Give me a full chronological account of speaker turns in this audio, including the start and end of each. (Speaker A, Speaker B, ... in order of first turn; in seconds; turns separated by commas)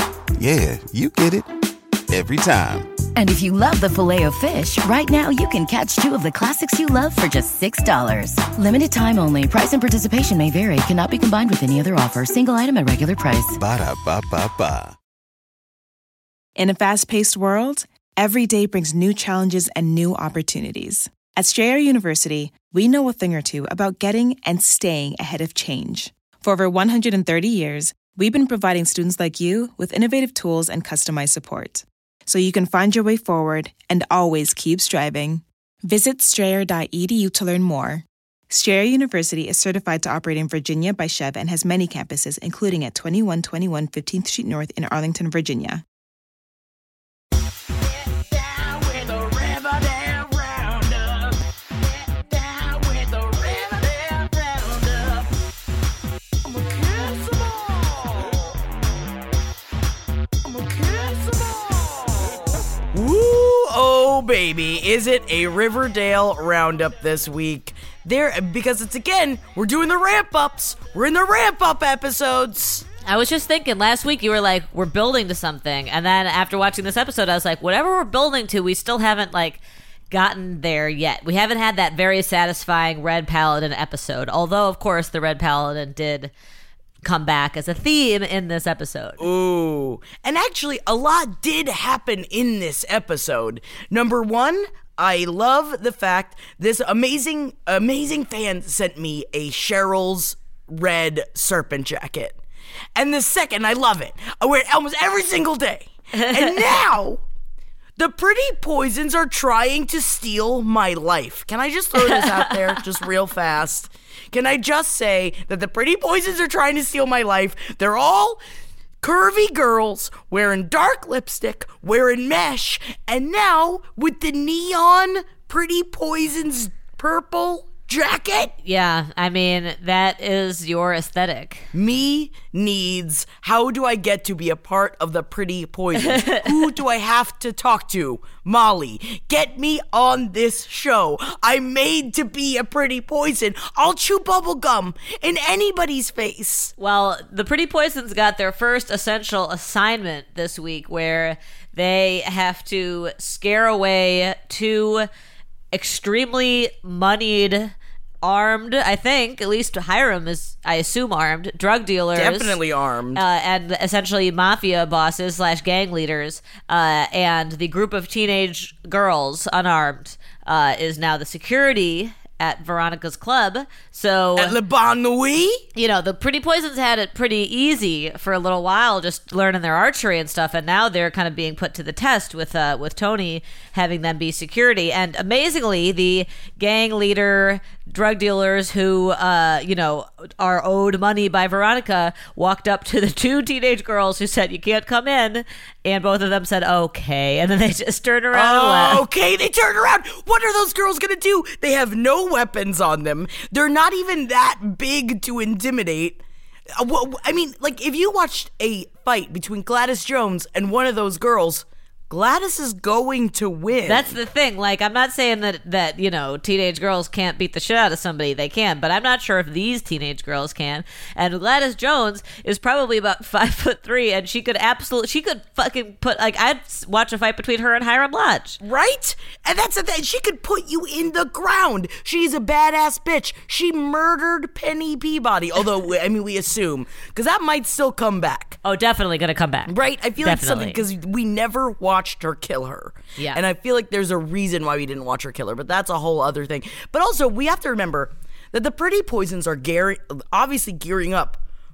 Speaker A: 0.4-1.5, Speaker A: 2.1-2.9, Speaker B: 3.2-13.6, Speaker A: 13.6-15.0, Speaker C: 16.6-45.8, Speaker D: 48.0-51.4, Speaker D: 51.9-55.3, Speaker D: 56.4-58.5, Speaker D: 60.4-72.9, Speaker E: 73.0-86.3, Speaker E: 87.0-89.3, Speaker D: 89.2-102.4, Speaker D: 103.0-107.2, Speaker D: 108.0-118.4, Speaker E: 112.0-112.8, Speaker D: 119.0-128.5, Speaker E: 128.6-131.7, Speaker D: 131.7-146.7, Speaker E: 136.0-136.6, Speaker E: 146.8-155.1, Speaker E: 155.7-162.6, Speaker D: 162.2-163.2, Speaker E: 163.2-174.6, Speaker D: 174.4-175.7, Speaker E: 175.8-199.0, Speaker D: 198.3-206.2, Speaker D: 206.8-214.2, Speaker E: 213.9-228.6, Speaker D: 228.6-238.6, Speaker E: 238.6-240.8, Speaker D: 239.7-251.4